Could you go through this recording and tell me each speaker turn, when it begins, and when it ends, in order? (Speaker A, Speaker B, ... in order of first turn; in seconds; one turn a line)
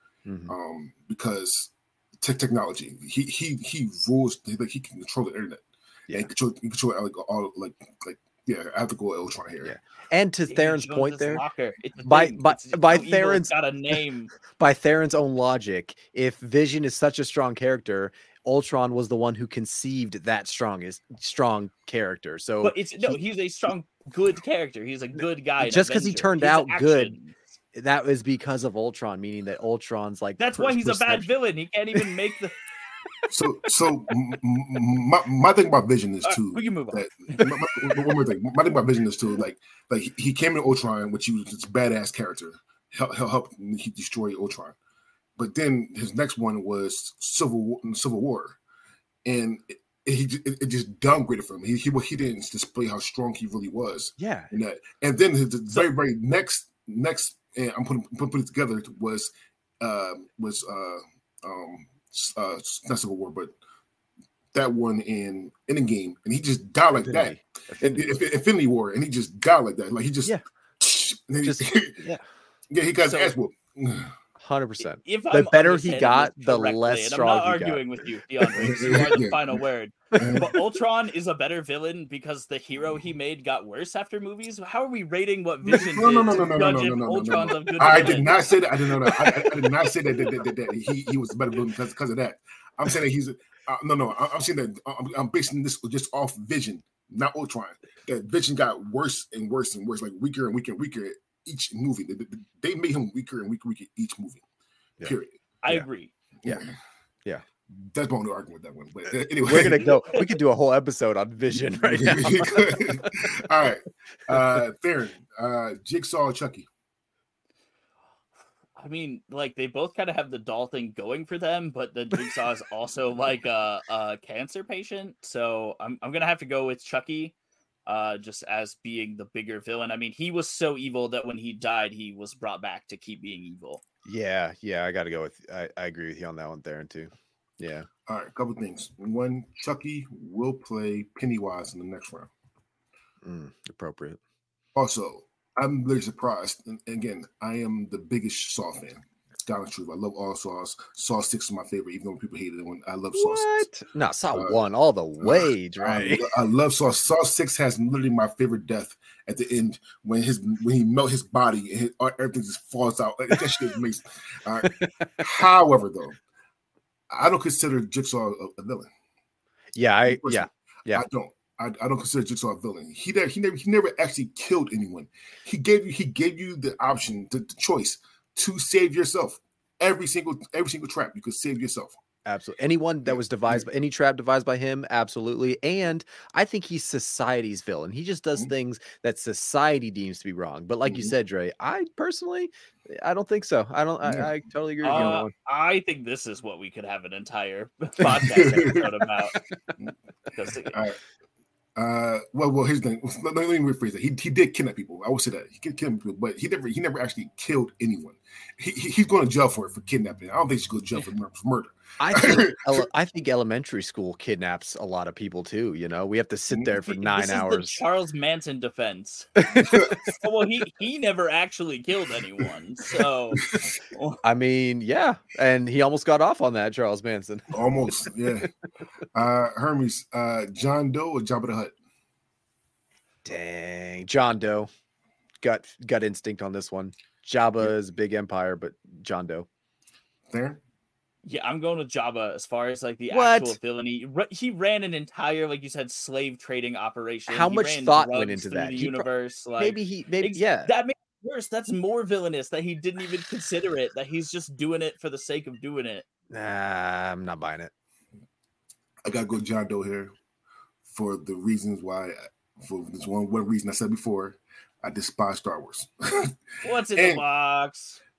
Speaker A: 0.3-0.5
Speaker B: 0.5-9.7
Speaker A: 9.6-11.4
Speaker C: 10.5-14.3
Speaker A: 12.0-13.5
Speaker A: 14.5-23.2
Speaker C: 22.6-27.4
Speaker A: 25.6-27.1
Speaker A: 27.7-31.3
Speaker C: 30.4-32.6
Speaker B: 33.3-44.8
Speaker C: 36.2-38.2
Speaker B: 45.4-48.6
Speaker B: 49.2-63.6
Speaker A: 54.2-54.5
Speaker B: 64.5-72.0
Speaker A: 67.1-68.2
Speaker A: 71.4-72.2
Speaker B: 72.7-74.1
Speaker C: 73.0-73.3
Speaker A: 74.4-77.8
Speaker C: 75.0-88.5
Speaker B: 78.6-79.4
Speaker A: 78.6-78.9
Speaker B: 80.2-80.5
Speaker B: 85.7-104.4
Speaker B: 105.0-105.4
Speaker C: 105.6-106.1
Speaker B: 106.4-106.8
Speaker B: 107.7-110.0
Speaker A: 109.5-113.3
Speaker C: 109.6-110.3
Speaker B: 111.8-116.7
Speaker C: 118.8-127.3
Speaker C: 127.9-133.8
Speaker A: 134.1-137.9
Speaker B: 138.1-142.3
Speaker A: 143.2-144.2
Speaker B: 144.8-153.7
Speaker A: 153.1-156.3
Speaker B: 155.2-166.2
Speaker A: 164.6-165.2
Speaker B: 167.1-168.9
Speaker A: 169.8-171.1
Speaker B: 170.1-181.9
Speaker A: 182.3-195.3
Speaker B: 183.1-183.7
Speaker B: 190.9-191.1
Speaker B: 194.0-194.3
Speaker C: 194.8-199.4
Speaker B: 198.0-198.9
Speaker C: 200.3-200.8
Speaker B: 200.7-201.0
Speaker B: 201.8-212.8
Speaker A: 212.0-217.8
Speaker C: 216.8-224.2
Speaker A: 219.4-219.9
Speaker B: 219.6-220.0
Speaker A: 224.2-227.6
Speaker B: 227.5-228.5
Speaker B: 229.2-231.8
Speaker A: 233.2-234.7
Speaker A: 235.4-239.5
Speaker B: 240.3-240.6
Speaker C: 241.2-256.1
Speaker A: 243.1-243.6
Speaker A: 247.3-249.1
Speaker A: 249.6-250.7
Speaker A: 256.3-257.7
Speaker B: 259.1-260.1
Speaker B: 260.9-266.4
Speaker C: 266.6-268.0
Speaker B: 266.9-267.2